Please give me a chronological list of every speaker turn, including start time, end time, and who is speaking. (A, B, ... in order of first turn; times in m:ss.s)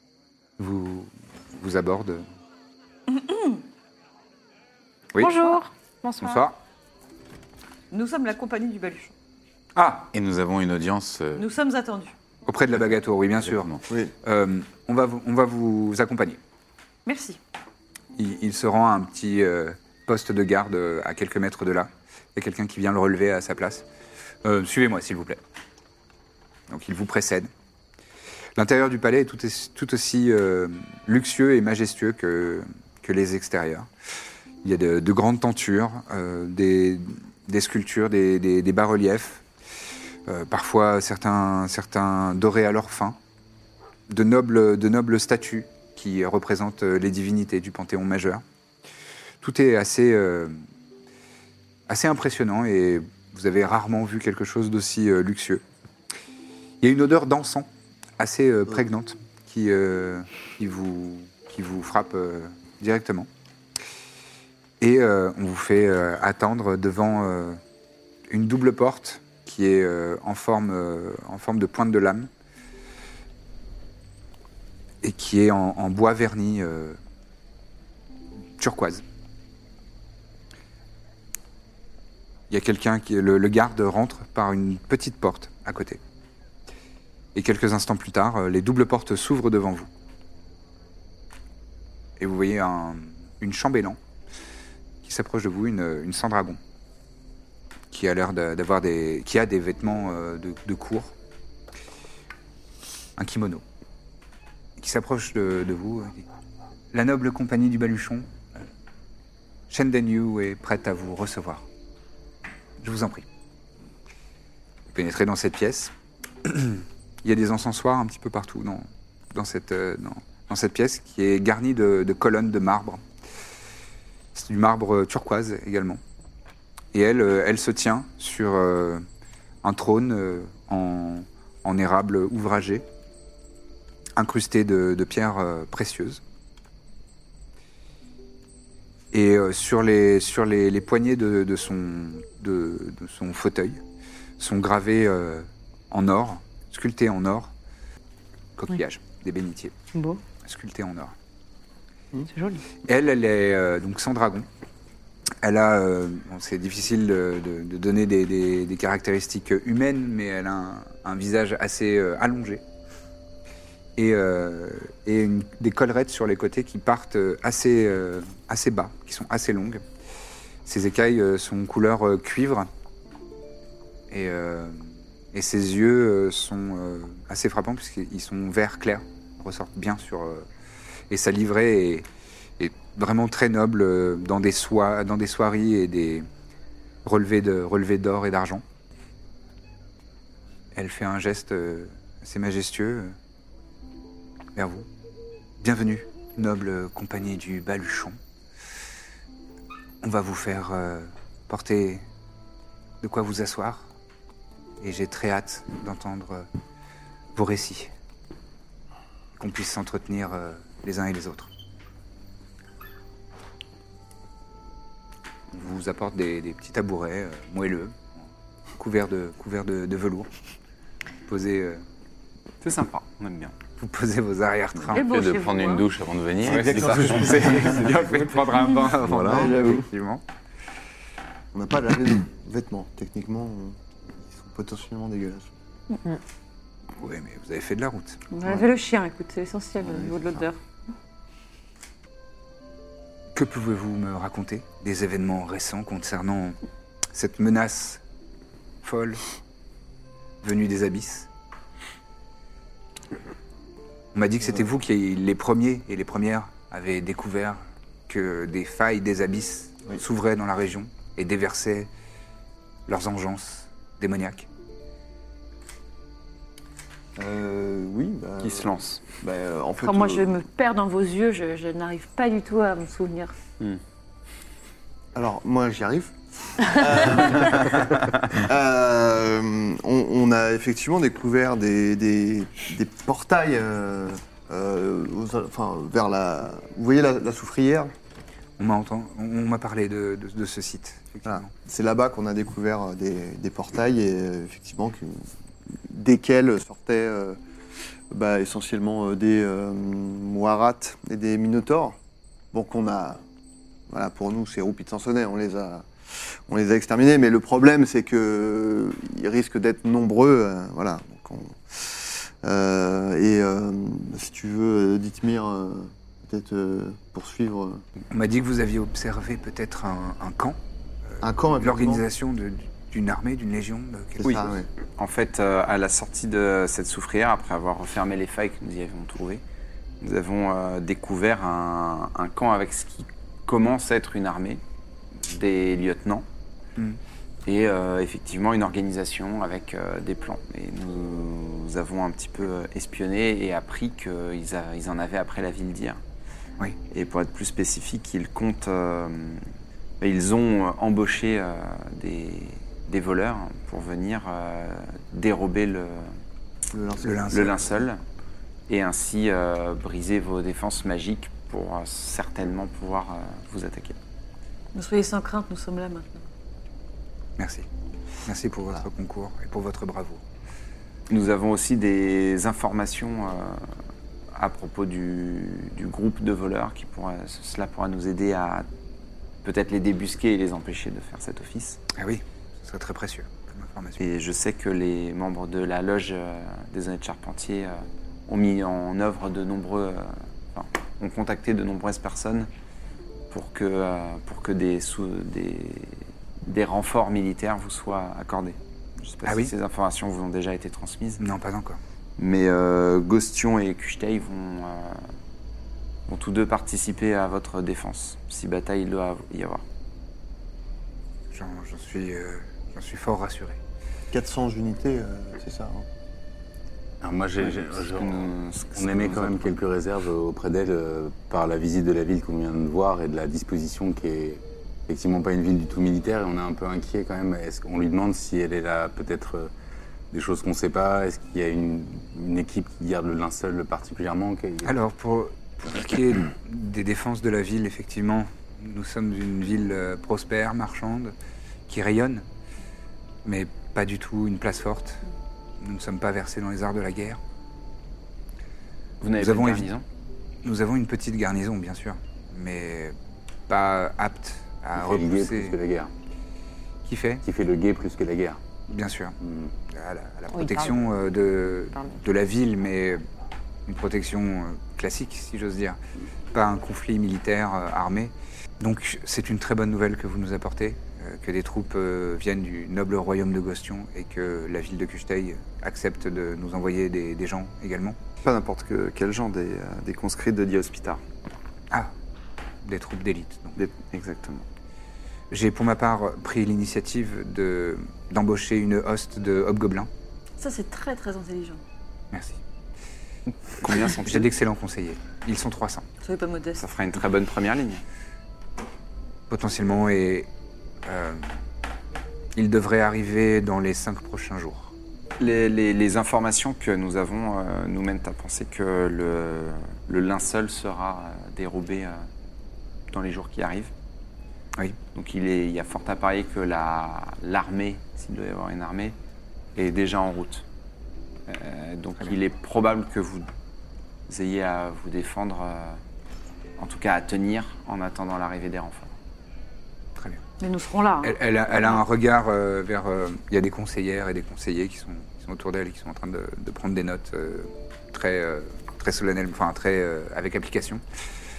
0:00.6-0:02.2 A
0:03.1-0:03.6 B
0:05.2-0:06.4 C
0:06.2-0:06.6 A
0:07.9-0:09.1 B
0:09.8-0:10.1 A
0:10.1-0:11.4 D
0:11.4-0:12.1 B
0:12.4-0:16.4 A
0:13.4-0:13.8 D
0:13.9-0:14.1 E
0:17.0-0:17.4 B
0:18.2-0:23.8 A
0:24.4-0:25.4 A
0:26.7-0:27.5 A
0:28.6-0:33.9 A
0:34.6-0:39.4 A
0:40.3-0:43.2 A
0:44.1-0:48.4 A
0:49.4-0:50.6 A
0:51.9-0:55.6 A
0:56.8-1:03.3 A
1:04.8-1:07.6 A
1:08.3-1:12.3 A
1:15.0-1:17.0 A
1:18.6-1:19.0 A
1:22.5-1:26.0 A
1:27.3-1:29.9 A
1:32.2-1:34.0 A
1:35.0-1:36.6 A
1:37.9-1:41.1 A
1:43.2-1:43.6 A
1:44.8-1:46.2 A
1:46.9-1:48.3 A
1:49.7-1:51.6 A
1:52.8-1:53.2 A
1:54.9-1:55.9 A
1:56.4-2:03.0 A
2:04.3-2:06.0 A
2:06.9-2:09.0 A
2:09.6-2:12.8 A
2:14.2-2:16.2 A
2:19.1-2:23.8 A
2:24.4-2:27.5 A
2:28.6-2:29.7 A
2:29.9-2:30.2 C
2:30.4-2:31.1 A
2:32.3-2:32.6 C
2:32.8-2:34.4 A
2:35.4-2:42.6 A
2:44.0-2:49.8 A
2:50.6-2:52.7 A
2:54.1-3:00.4 A
3:01.1-3:02.1 A
3:02.6-3:06.3 A
3:07.0-3:08.6 A
3:10.7-3:13.1 A
3:14.5-3:14.9 A
3:15.6-3:18.2 A
3:20.0-3:22.0 A
3:23.0-3:23.9 A
3:24.8-3:26.5 A
3:27.3-3:27.9 A
3:29.4-3:31.5 A
3:35.5-3:38.2 A
3:38.8-3:40.3 A
3:41.3-3:41.8 A
3:42.6-3:43.6 F
3:43.8-3:45.0 A
3:44.9-3:48.4 D
3:44.9-3:45.9 B
3:46.4-3:47.8 E
3:46.4-3:48.4 F
3:47.2-3:50.2 A
3:48.9-3:49.6 D
3:49.2-3:49.9 E
3:51.5-3:55.5 E
3:57.0-3:58.2 A
3:58.3-4:00.6 B
3:59.8-4:00.2 E
4:03.3-4:06.6 A
4:07.1-4:08.0 A
4:08.8-4:09.2 A
4:10.4-4:11.3 A
4:14.1-4:21.9 A
4:22.9-4:24.5 A
4:27.2-4:30.4 E
4:28.4-4:29.0 F
4:29.8-4:33.3 B
4:35.1-4:47.9 E
4:48.6-4:51.5 A
4:51.2-4:55.3 E
4:55.9-4:57.4 E
4:58.1-5:02.0 E
5:02.5-5:03.2 E
5:03.9-5:05.9 E
5:06.5-5:17.8 E
5:18.1-5:24.2 A
5:21.2-5:22.0 E
5:24.2-5:24.7 E
5:24.2-5:29.4 F
5:30.0-5:34.6 F
5:35.1-5:36.2 F
5:37.4-5:46.0 F
5:46.9-5:49.4 F
5:50.0-5:56.1 F
5:56.7-5:57.7 E
5:57.0-5:57.6 A
5:57.2-5:58.0 F
5:58.7-6:04.0 F
6:04.7-6:06.2 B
6:07.4-6:07.7 A
6:08.2-6:10.2 A
6:11.1-6:13.7 F
6:14.3-6:18.7 F
6:19.4-6:21.8 F
6:21.9-6:24.0 A
6:24.0-6:32.5 F
6:33.3-6:41.2 F
6:39.2-6:39.5 A
6:41.2-6:41.8 A
6:42.2-6:45.1 F
6:46.1-6:49.6 F
6:51.3-6:53.6 A
6:54.1-6:55.9 E
6:57.0-7:09.5 D
6:57.4-6:59.5 F
7:10.1-7:14.7 D
7:14.6-7:21.1 A
7:21.7-7:22.2 A
7:23.2-7:25.0 A
7:25.6-7:27.2 A
7:29.0-7:29.8 F
7:29.2-7:29.7 A
7:30.4-7:33.0 A
7:33.5-7:35.6 A
7:34.8-7:35.9 D
7:36.8-7:37.2 A
7:37.2-7:38.4 D
7:38.7-7:39.2 A
7:39.2-7:39.5 D
7:39.7-7:43.0 A
7:40.3-7:40.8 C
7:43.6-7:45.8 A
7:46.3-7:58.0 A
7:58.2-8:01.0 F
8:02.6-8:03.6 A
8:03.6-8:04.4 F
8:05.3-8:09.9 A
8:10.4-8:11.6 B
8:12.1-8:12.4 A
8:13.5-8:14.3 F
8:13.8-8:15.8 A
8:16.0-8:16.6 B
8:16.6-8:17.8 F
8:19.3-8:20.3 A
8:20.8-8:21.3 A
8:22.4-8:24.7 A
8:25.2-8:32.0 F
8:32.9-8:33.7 F
8:34.9-8:39.0 F
8:39.6-8:40.4 F
8:41.3-8:43.3 F
8:44.1-8:45.8 F
8:46.6-8:48.9 F
8:50.4-8:51.8 B
8:51.0-9:00.8 A